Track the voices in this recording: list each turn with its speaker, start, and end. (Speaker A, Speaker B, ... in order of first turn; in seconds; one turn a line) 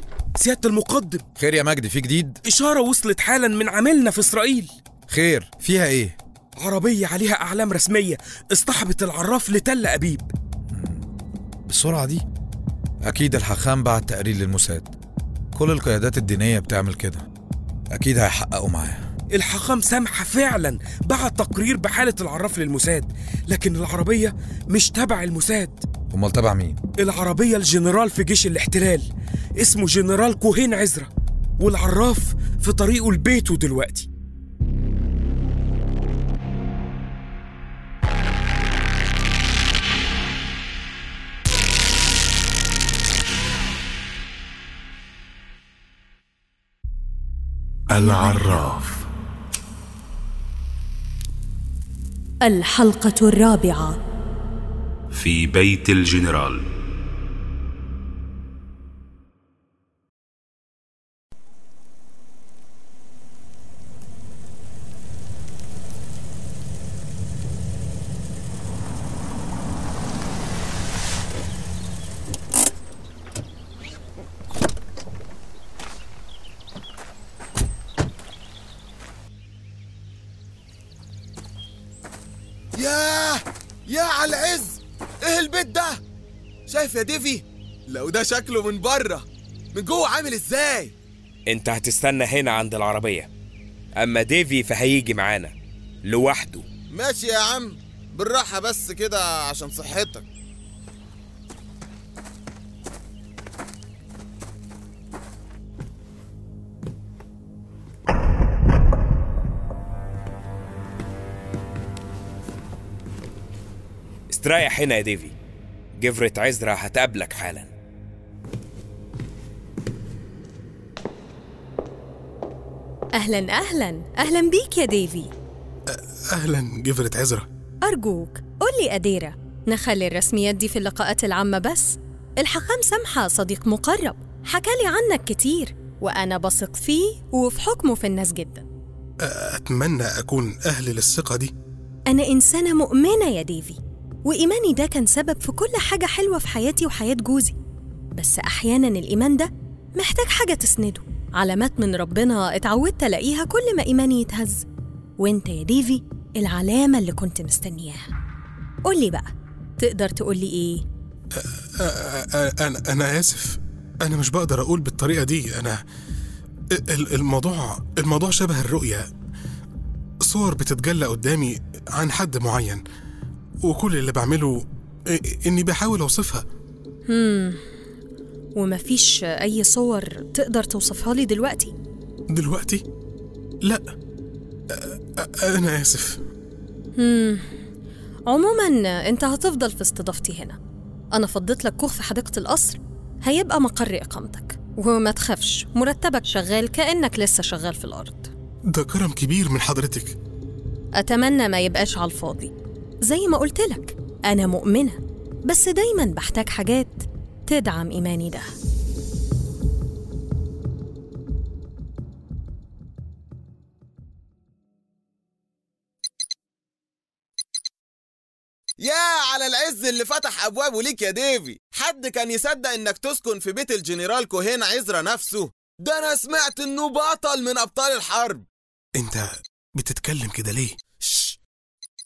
Speaker A: 0.4-1.2
Speaker B: 1.4-2.4
Speaker A: 2.5-4.7
Speaker B: 5.1-6.2
Speaker A: 6.6-10.3
Speaker B: 10.7-11.1
Speaker B: 11.7-12.2
Speaker B: 13.0-14.9
Speaker B: 15.6-17.3
Speaker B: 17.9-19.1
Speaker A: 19.3-25.9
Speaker B: 26.1-26.8
Speaker A: 27.0-34.1
Speaker C: 47.9-49.0
Speaker D: 52.4-54.0
Speaker C: 55.1-56.6
Speaker E: 82.8-86.0
Speaker E: 86.7-91.0
Speaker A: 91.5-93.3
Speaker A: 94.0-95.5
Speaker A: 96.1-96.7
Speaker E: 96.9-100.3
Speaker A: 114.3-115.3
Speaker A: 116.0-117.7
Speaker D: 123.2-125.3
Speaker F: 125.9-127.5
Speaker D: 127.8-138.7
Speaker F: 139.2-141.5
Speaker D: 142.1-147.6
Speaker D: 148.2-154.7
Speaker D: 155.2-158.1
Speaker D: 158.9-160.8
Speaker F: 161.4-165.8
Speaker F: 166.8-169.1
Speaker F: 170.2-172.8
Speaker F: 173.7-176.5
Speaker D: 177.1-177.6
Speaker D: 178.6-181.7
Speaker F: 182.3-182.8
Speaker F: 184.7-186.2
Speaker D: 187.0-187.5
Speaker D: 188.3-190.6
Speaker D: 191.2-198.3
Speaker F: 198.7-200.2
Speaker D: 201.0-202.5
Speaker D: 203.0-208.5
Speaker E: 218.8-228.5
Speaker F: 229.0-230.8
Speaker E: 231.0-231.4